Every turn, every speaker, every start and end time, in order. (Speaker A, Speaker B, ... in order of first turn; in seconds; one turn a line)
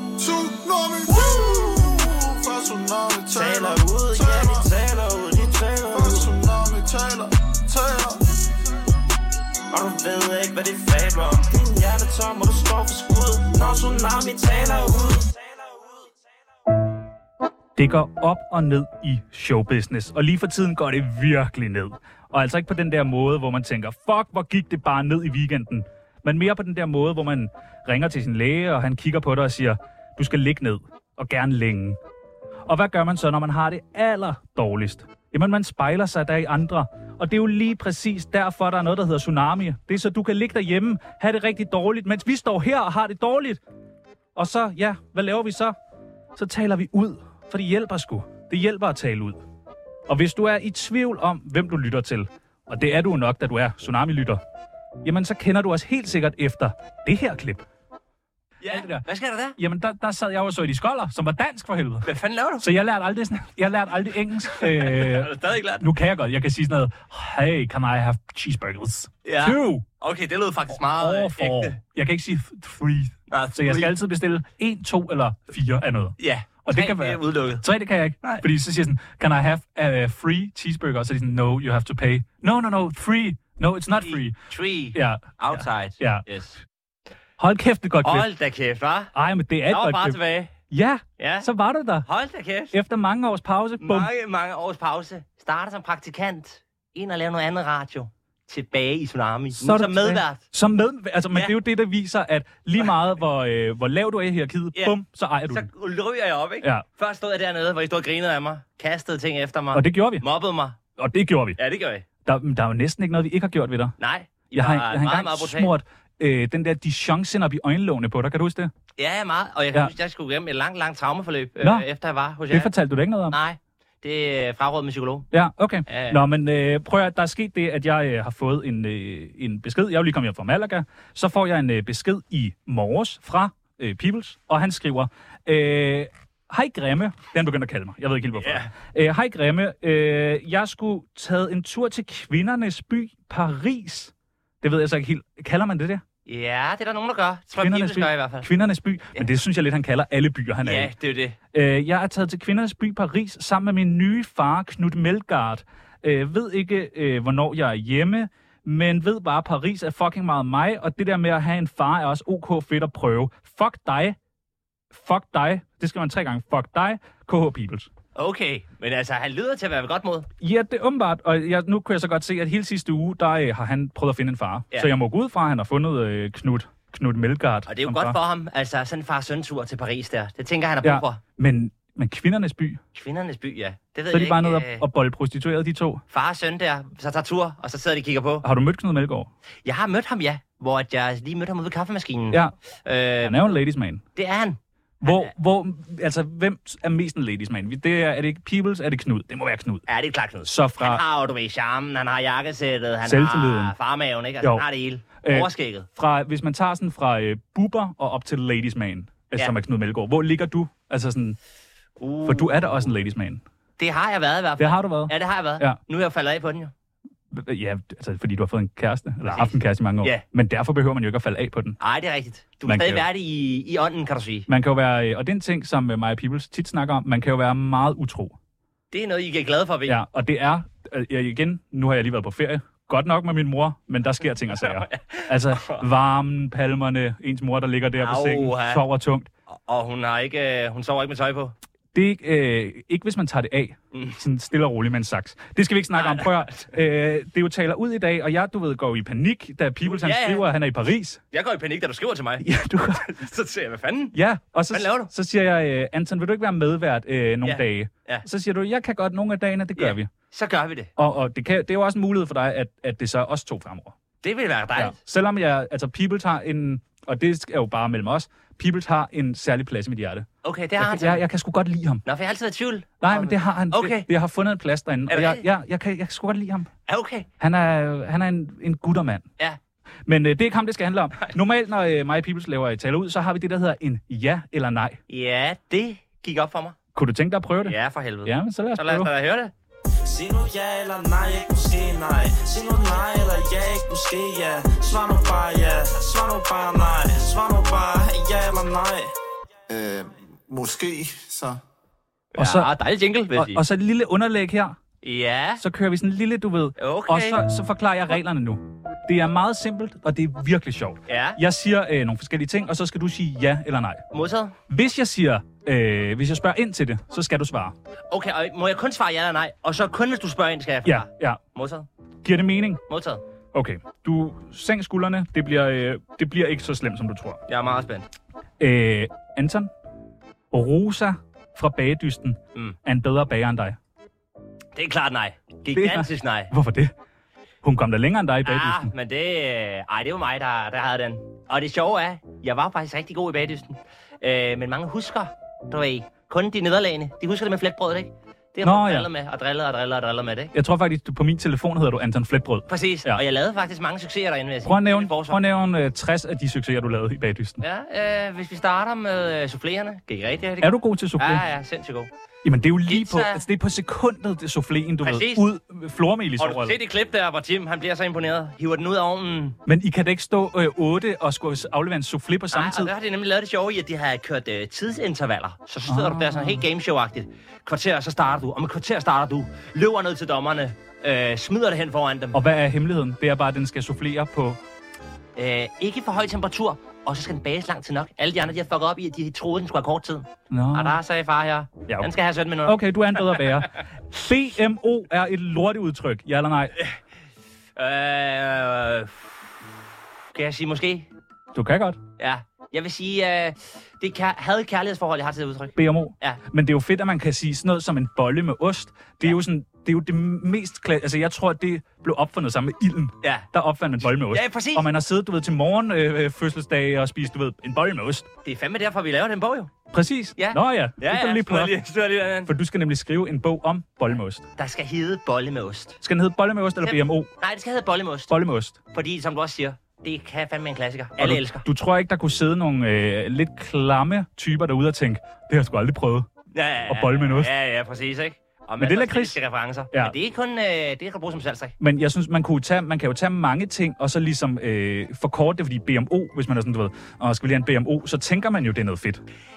Speaker A: 0.2-4.7
Speaker B: 3.4-6.3
Speaker A: 5.9-8.2
Speaker B: 9.7-15.9
Speaker C: 17.8-32.0
Speaker C: 32.7-43.6
Speaker C: 44.4-45.8
Speaker C: 46.4-49.4
Speaker C: 50.1-54.4
Speaker C: 55.0-57.6
Speaker D: 58.6-59.6
Speaker C: 58.6-59.0
Speaker C: 59.6-62.1
Speaker D: 62.0-62.7
Speaker C: 62.6-69.8
Speaker D: 64.5-65.9
Speaker D: 69.2-71.8
Speaker C: 70.8-84.4
Speaker D: 73.3-73.9
Speaker D: 76.2-77.6
Speaker D: 84.0-86.6
Speaker C: 84.9-86.2
Speaker C: 87.4-88.3
Speaker D: 88.0-89.1
Speaker C: 89.1-90.2
Speaker D: 89.7-90.5
Speaker C: 90.7-92.1
Speaker D: 91.2-91.5
Speaker D: 92.0-92.8
Speaker C: 92.7-94.1
Speaker D: 93.8-100.4
Speaker C: 99.6-105.7
Speaker D: 105.5-110.8
Speaker C: 109.7-110.2
Speaker C: 111.0-111.6
Speaker D: 111.6-112.0
Speaker C: 112.2-114.0
Speaker D: 114.0-115.7
Speaker C: 114.5-118.7
Speaker D: 119.0-122.7
Speaker C: 121.6-121.8
Speaker C: 122.5-123.4
Speaker D: 123.3-125.3
Speaker C: 125.3-146.0
Speaker D: 125.9-126.2
Speaker D: 138.4-138.7
Speaker D: 146.3-148.5
Speaker C: 147.6-150.9
Speaker D: 150.6-151.4
Speaker C: 151.5-164.2
Speaker C: 164.9-167.9
Speaker D: 168.2-170.3
Speaker C: 170.4-178.2
Speaker D: 177.7-181.2
Speaker C: 180.8-182.8
Speaker D: 182.9-184.8
Speaker C: 184.1-186.0
Speaker D: 186.1-188.5
Speaker C: 188.4-189.3
Speaker D: 189.7-193.6
Speaker C: 193.2-194.0
Speaker D: 194.2-195.3
Speaker C: 195.0-199.8
Speaker D: 199.9-205.9
Speaker C: 200.5-201.0
Speaker C: 203.0-203.8
Speaker C: 205.2-211.4
Speaker D: 212.0-212.6
Speaker C: 212.2-213.4
Speaker D: 213.8-216.7
Speaker C: 214.6-215.8
Speaker C: 217.3-221.8
Speaker D: 219.2-220.2
Speaker D: 221.8-224.5
Speaker C: 222.7-223.1
Speaker C: 224.5-228.4
Speaker D: 228.9-230.0
Speaker C: 229.9-239.3
Speaker D: 234.5-235.9
Speaker D: 238.0-238.8
Speaker D: 239.5-241.5
Speaker C: 241.9-251.2
Speaker D: 243.9-244.2
Speaker D: 245.9-246.7
Speaker D: 249.8-250.5
Speaker D: 251.3-254.2
Speaker C: 252.4-253.1
Speaker C: 254.1-260.1
Speaker D: 254.7-255.1
Speaker D: 257.4-258.2
Speaker D: 259.8-260.9
Speaker C: 261.0-263.9
Speaker D: 264.2-265.0
Speaker C: 264.8-270.3
Speaker D: 270.4-271.2
Speaker C: 270.8-272.0
Speaker D: 272.1-274.1
Speaker C: 273.0-276.7
Speaker D: 275.1-275.5
Speaker D: 276.9-277.3
Speaker C: 277.4-279.3
Speaker C: 280.1-285.0
Speaker D: 285.1-286.8
Speaker C: 286.9-289.1
Speaker D: 287.6-289.5
Speaker B: 290.0-299.1
Speaker A: 299.7-301.6
Speaker D: 302.3-303.6
Speaker C: 302.4-302.7
Speaker C: 303.3-304.8
Speaker D: 305.0-305.6
Speaker C: 305.6-314.1
Speaker D: 306.8-307.4
Speaker D: 311.1-311.4
Speaker D: 314.1-314.6
Speaker C: 314.7-317.8
Speaker D: 318.1-321.9
Speaker C: 320.9-321.4
Speaker C: 322.2-322.8
Speaker D: 322.9-323.2
Speaker C: 323.5-327.4
Speaker D: 327.5-328.1
Speaker C: 328.6-329.7
Speaker C: 330.5-333.8
Speaker D: 334.8-336.5
Speaker C: 335.7-336.9
Speaker C: 337.6-338.9
Speaker D: 338.4-350.5
Speaker C: 348.6-349.1
Speaker C: 350.5-353.2
Speaker D: 352.7-355.4
Speaker C: 354.6-357.6
Speaker D: 357.6-362.1
Speaker C: 360.6-361.5
Speaker C: 362.4-366.8
Speaker D: 362.9-363.4
Speaker D: 365.0-365.5
Speaker D: 366.4-369.6
Speaker C: 369.7-372.9
Speaker D: 372.5-382.4
Speaker C: 375.9-376.6
Speaker C: 382.3-384.6
Speaker D: 385.4-393.5
Speaker C: 390.5-391.0
Speaker C: 392.6-396.8
Speaker D: 397.8-399.3
Speaker D: 400.3-401.1
Speaker C: 401.5-402.0
Speaker D: 402.2-406.4
Speaker C: 405.8-418.3
Speaker D: 413.2-413.5
Speaker D: 414.1-414.9
Speaker D: 418.4-419.8
Speaker C: 419.9-421.8
Speaker D: 420.4-422.5
Speaker C: 422.4-424.4
Speaker D: 424.6-426.0
Speaker C: 426.0-427.3
Speaker D: 426.8-428.3
Speaker C: 428.3-428.8
Speaker D: 428.9-431.7
Speaker C: 431.2-436.3
Speaker D: 436.5-441.8
Speaker C: 436.9-437.5
Speaker C: 438.8-439.4
Speaker C: 441.8-449.2